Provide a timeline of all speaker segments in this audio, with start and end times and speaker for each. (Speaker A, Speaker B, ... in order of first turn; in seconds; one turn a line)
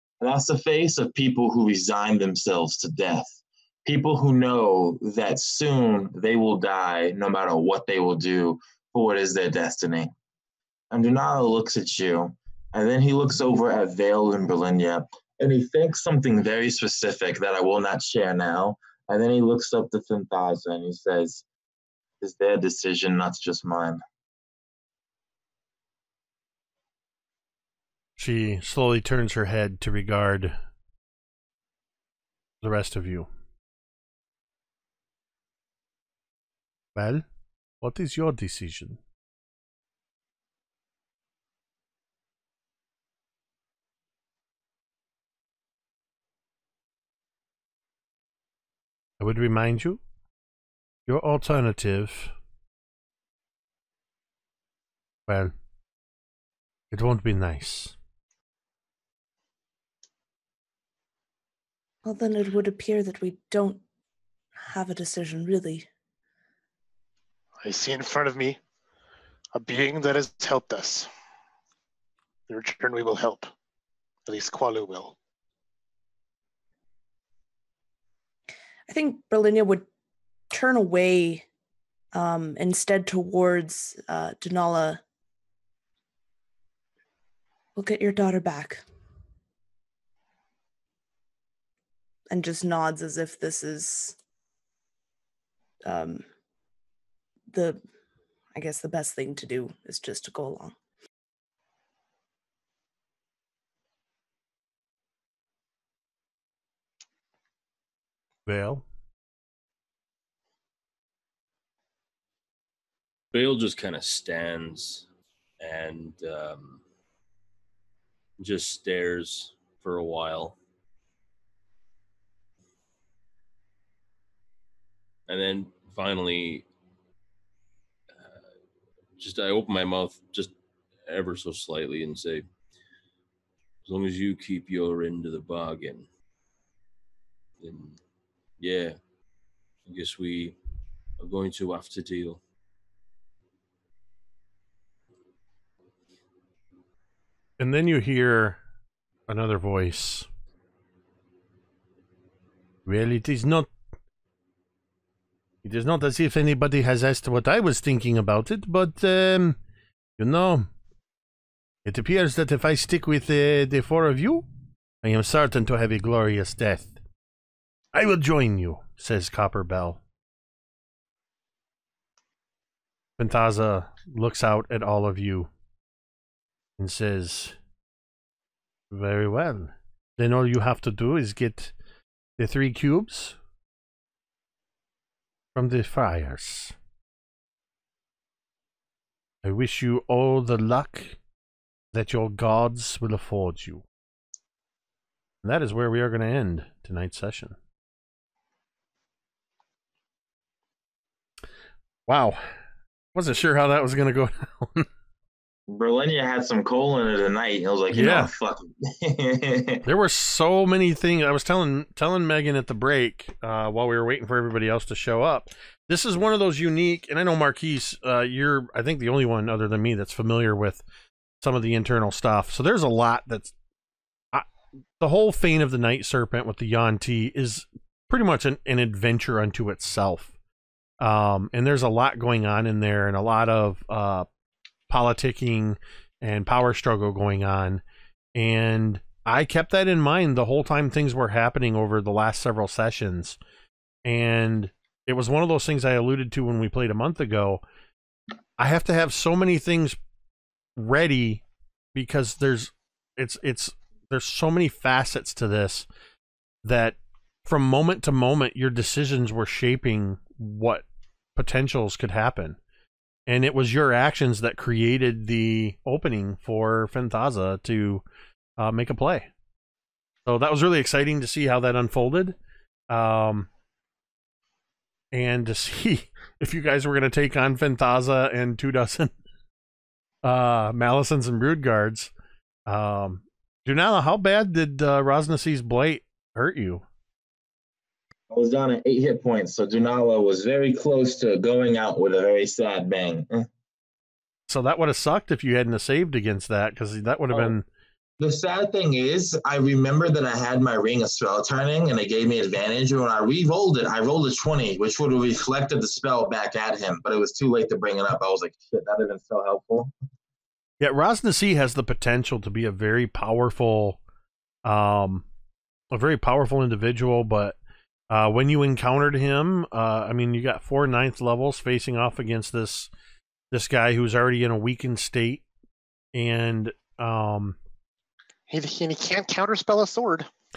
Speaker A: 0.2-10.1
Speaker A: 10.9-21.4
Speaker A: 22.2-24.0
Speaker B: 28.2-30.6
Speaker B: 32.6-33.3
Speaker B: 37.0-37.3
Speaker B: 37.8-39.0
Speaker B: 49.2-50.0
Speaker B: 51.1-52.3
Speaker B: 55.3-55.5
Speaker B: 56.9-58.0
Speaker C: 62.0-63.8
Speaker C: 64.6-65.9
Speaker D: 67.6-68.6
Speaker D: 69.5-71.1
Speaker D: 72.5-73.5
Speaker D: 74.3-75.2
Speaker C: 78.9-79.9
Speaker C: 80.5-81.5
Speaker C: 82.1-85.0
Speaker C: 87.8-88.8
Speaker C: 92.3-94.2
Speaker C: 95.8-96.2
Speaker C: 97.5-97.8
Speaker C: 98.5-100.8
Speaker B: 108.5-108.9
Speaker E: 113.3-115.1
Speaker E: 115.6-116.8
Speaker E: 118.4-120.6
Speaker E: 125.3-126.7
Speaker E: 128.2-128.4
Speaker E: 129.2-130.5
Speaker E: 131.1-132.4
Speaker E: 133.8-136.1
Speaker E: 137.6-138.0
Speaker E: 138.6-139.0
Speaker E: 139.8-140.6
Speaker E: 141.2-142.4
Speaker B: 147.6-148.6
Speaker B: 149.3-150.3
Speaker B: 152.9-153.7
Speaker B: 155.6-159.6
Speaker B: 160.2-160.7
Speaker B: 161.8-164.4
Speaker B: 165.0-167.0
Speaker B: 167.9-170.0
Speaker B: 173.2-175.5
Speaker B: 176.8-177.6
Speaker B: 178.9-181.7
Speaker B: 182.4-183.4
Speaker B: 185.6-186.8
Speaker B: 189.4-191.2
Speaker B: 191.9-193.8
Speaker B: 195.4-197.6
Speaker B: 202.1-202.4
Speaker B: 203.2-204.9
Speaker A: 205.7-209.9
Speaker B: 207.9-208.3
Speaker B: 209.8-220.8
Speaker B: 221.4-223.5
Speaker B: 225.0-230.3
Speaker B: 231.0-234.3
Speaker B: 234.9-237.8
Speaker B: 238.3-243.4
Speaker B: 244.1-247.6
Speaker B: 248.6-250.0
Speaker B: 250.8-251.4
Speaker B: 251.9-255.9
Speaker B: 256.6-260.9
Speaker B: 261.4-262.6
Speaker B: 263.3-268.0
Speaker B: 268.6-269.3
Speaker B: 270.3-272.4
Speaker B: 272.9-273.5
Speaker B: 275.1-279.2
Speaker B: 280.2-282.1
Speaker B: 282.7-286.8
Speaker A: 288.3-293.5
Speaker B: 294.5-297.6
Speaker A: 298.2-309.9
Speaker B: 310.8-314.0
Speaker B: 314.6-315.3
Speaker B: 315.9-317.6
Speaker B: 318.1-322.9
Speaker B: 323.5-325.4
Speaker B: 326.1-327.6
Speaker D: 328.5-330.3